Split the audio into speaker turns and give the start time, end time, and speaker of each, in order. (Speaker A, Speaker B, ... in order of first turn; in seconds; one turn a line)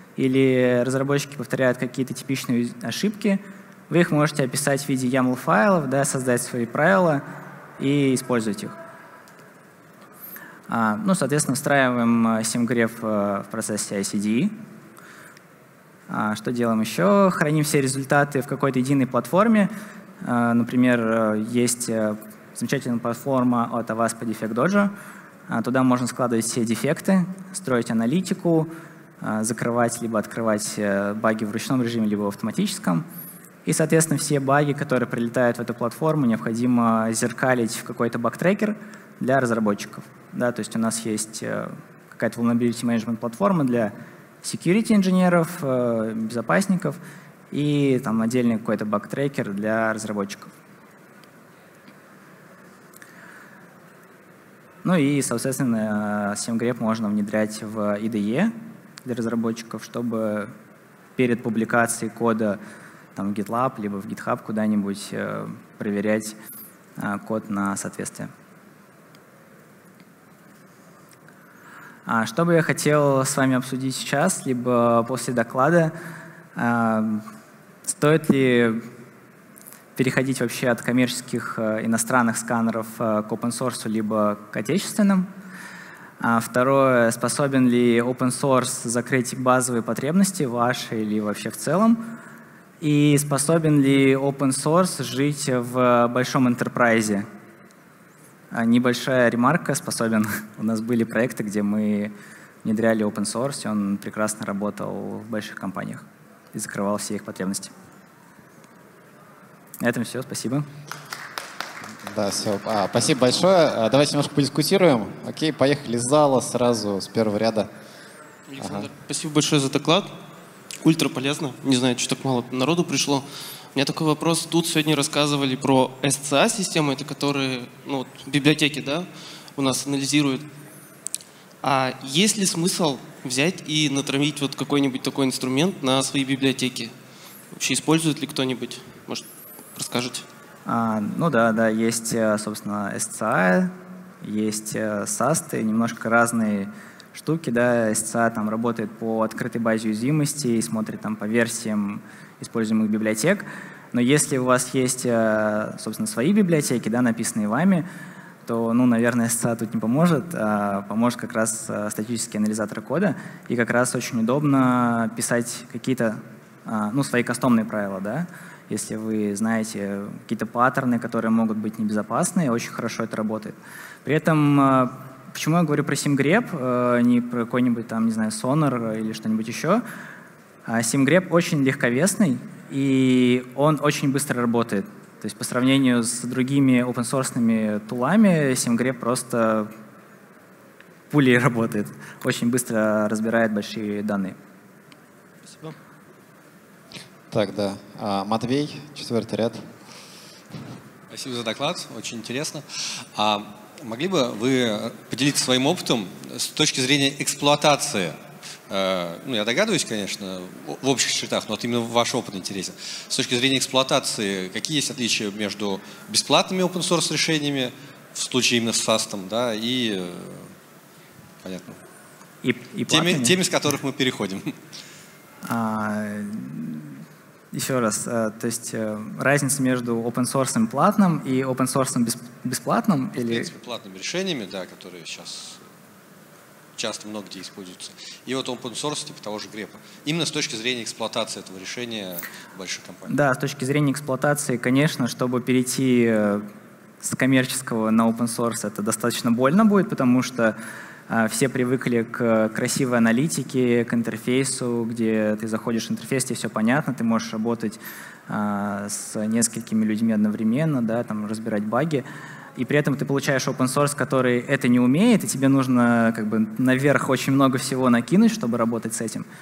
Speaker A: 0.2-7.2
Speaker A: 7.8-8.8
Speaker A: 10.7-14.5
Speaker A: 16.1-19.7
Speaker A: 20.2-24.9
Speaker A: 25.5-33.0
Speaker A: 33.6-47.0
Speaker A: 47.5-50.5
Speaker A: 54.8-60.5
Speaker A: 61.1-62.6
Speaker A: 63.1-66.4
Speaker A: 67.0-68.3
Speaker A: 72.0-75.9
Speaker A: 76.5-77.3
Speaker A: 77.8-78.8
Speaker A: 80.0-85.3
Speaker A: 86.2-92.1
Speaker A: 92.8-97.2
Speaker A: 98.5-102.1
Speaker A: 102.6-107.7
Speaker A: 109.8-110.7
Speaker B: 112.0-117.7
Speaker C: 118.5-120.1
Speaker B: 118.6-118.9
Speaker C: 120.8-130.4
Speaker C: 131.6-136.9
Speaker C: 137.5-140.2
Speaker A: 140.7-157.9
Speaker A: 158.4-179.8
Speaker A: 180.7-189.7
Speaker A: 191.1-194.4
Speaker B: 197.3-199.7
Speaker D: 201.1-220.5
Speaker D: 221.4-221.8
Speaker A: 222.4-223.4
Speaker D: 222.9-224.6
Speaker A: 225.4-227.0
Speaker A: 227.5-233.5
Speaker D: 233.1-235.6
Speaker D: 236.7-243.1
Speaker A: 243.1-246.5
Speaker A: 247.0-250.6
Speaker A: 251.1-262.0
Speaker A: 262.6-269.2